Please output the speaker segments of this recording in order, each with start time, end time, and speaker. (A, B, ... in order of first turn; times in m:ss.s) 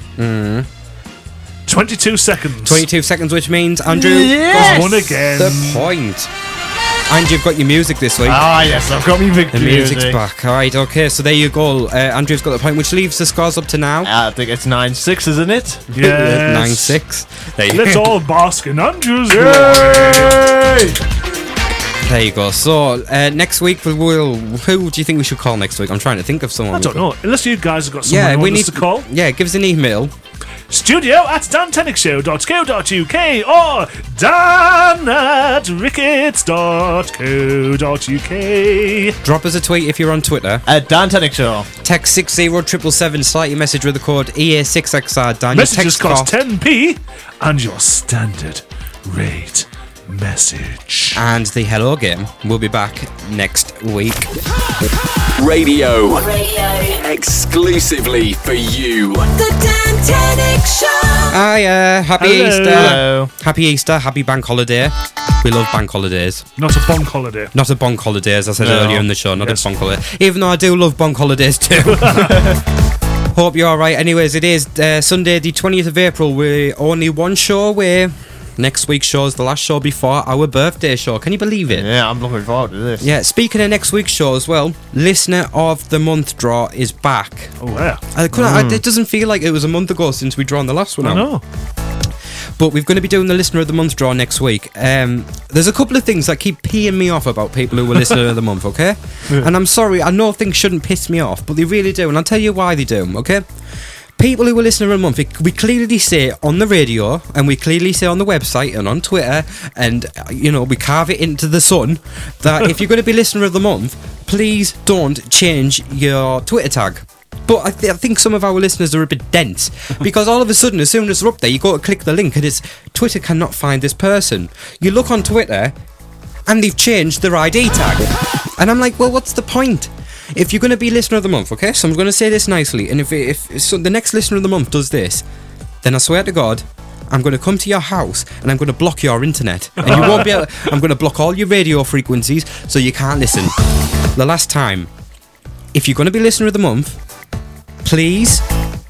0:00.2-0:00.7 A
0:01.7-0:02.8 B
0:02.6-0:06.3 A
0:03.9-0:05.1 C
0:04.5-0:05.9 B
0:07.1-0:08.5 A
0:08.2-0:10.2 C
0:09.5-0:14.1 A
0:14.0-0:15.9 C
0:15.9-0:17.0 B
0:15.9-0:18.2 A
0:17.7-0:20.4 B
0:19.3-0:21.0 C
0:22.0-0:27.0 A
0:26.7-0:29.1 B
0:28.0-0:30.1 A
0:30.7-0:39.2 B
0:39.2-0:40.6 A
0:40.6-0:41.7 C
0:41.8-0:46.4 A
0:45.5-0:51.2 B
0:51.1-0:54.3 A
0:55.4-0:56.3 D
0:56.2-0:57.0 E
0:56.9-0:59.3 D
0:59.3-1:01.3 E
1:01.3-1:06.5 A
1:02.2-1:03.0 B
1:02.7-1:03.3 C
1:06.6-1:07.5 B
1:07.5-1:12.3 A
1:08.6-1:09.0 C
1:09.4-1:09.6 B
1:11.8-1:12.3 B
1:12.2-1:12.6 C
1:13.3-1:21.9 A
1:21.7-1:23.1 C
1:23.0-1:27.6 A
1:27.6-1:28.0 B
1:28.1-1:31.3 A
1:28.3-1:28.8 C
1:31.0-1:31.4 B
1:32.6-1:43.5 A
1:44.2-2:05.7 A
2:06.5-2:15.2 A
2:15.8-2:23.6 A
2:19.8-2:20.6 B
2:24.1-2:24.9 A
2:25.7-2:27.0 A
2:27.8-2:28.4 A